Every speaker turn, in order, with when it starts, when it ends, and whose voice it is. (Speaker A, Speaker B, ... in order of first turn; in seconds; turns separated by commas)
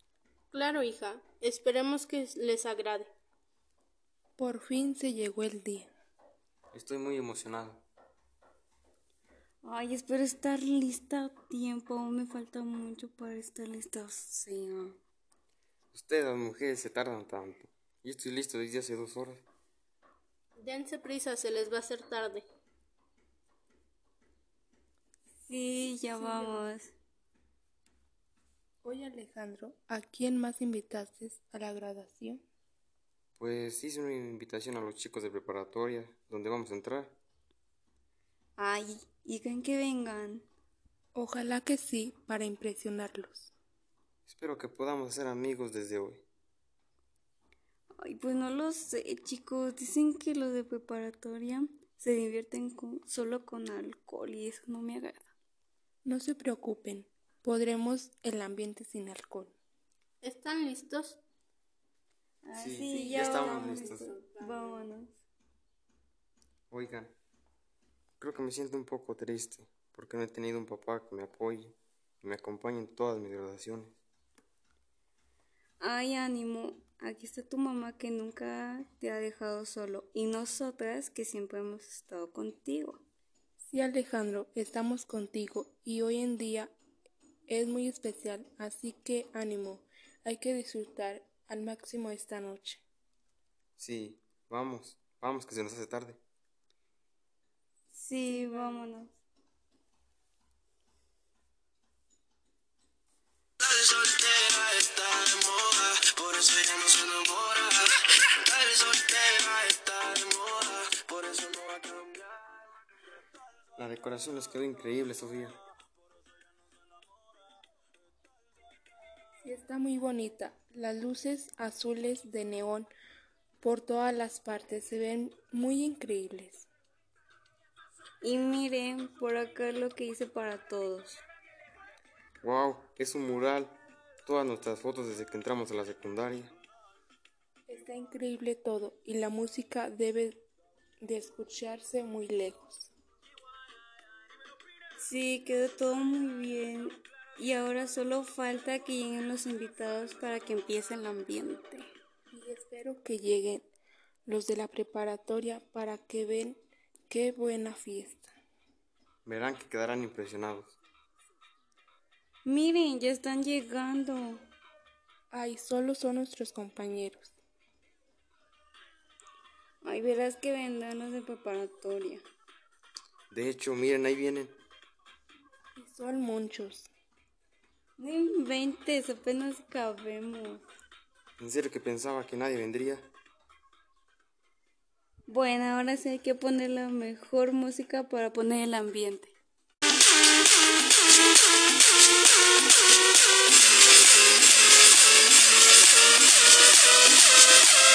Speaker A: 0.5-3.1, Speaker B: 4.4-5.9, Speaker C: 6.7-7.8, Speaker D: 9.6-15.0, Speaker C: 15.9-19.4, Speaker A: 20.6-22.4, Speaker D: 25.4-26.9, Speaker B: 26.1-26.7, Speaker B: 28.8-32.4, Speaker C: 33.4-37.2, Speaker D: 38.6-40.5, Speaker B: 41.1-43.5, Speaker C: 44.2-46.2, Speaker D: 48.0-55.3, Speaker B: 56.0-59.5, Speaker A: 60.2-61.2, Speaker D: 62.4-65.2, Speaker C: 62.5-64.0, Speaker B: 62.9-64.9, Speaker C: 66.7-67.2, Speaker C: 68.2-74.0, Speaker D: 75.8-83.0, Speaker B: 83.6-86.7, Speaker B: 87.5-92.8, Speaker C: 93.8-96.2, Speaker D: 97.9-99.1, Speaker B: 98.3-98.9, Speaker E: 103.6-107.9, Speaker E: 108.4-112.2, Speaker C: 113.8-115.6, Speaker B: 119.4-122.9, Speaker B: 123.6-126.7, Speaker D: 128.2-131.2, Speaker C: 132.4-136.5, Speaker B: 137.7-140.4, Speaker B: 141.0-142.9, Speaker D: 145.0-151.9, Speaker B: 152.3-153.7, Speaker B: 154.2-158.3, Speaker C: 159.2-160.8, Speaker D: 162.4-164.5, Speaker B: 165.3-167.3, Speaker D: 169.8-172.2, Speaker C: 173.3-174.6, Speaker B: 175.8-176.9, Speaker D: 178.0-180.6, Speaker C: 181.4-183.1, Speaker D: 185.3-189.3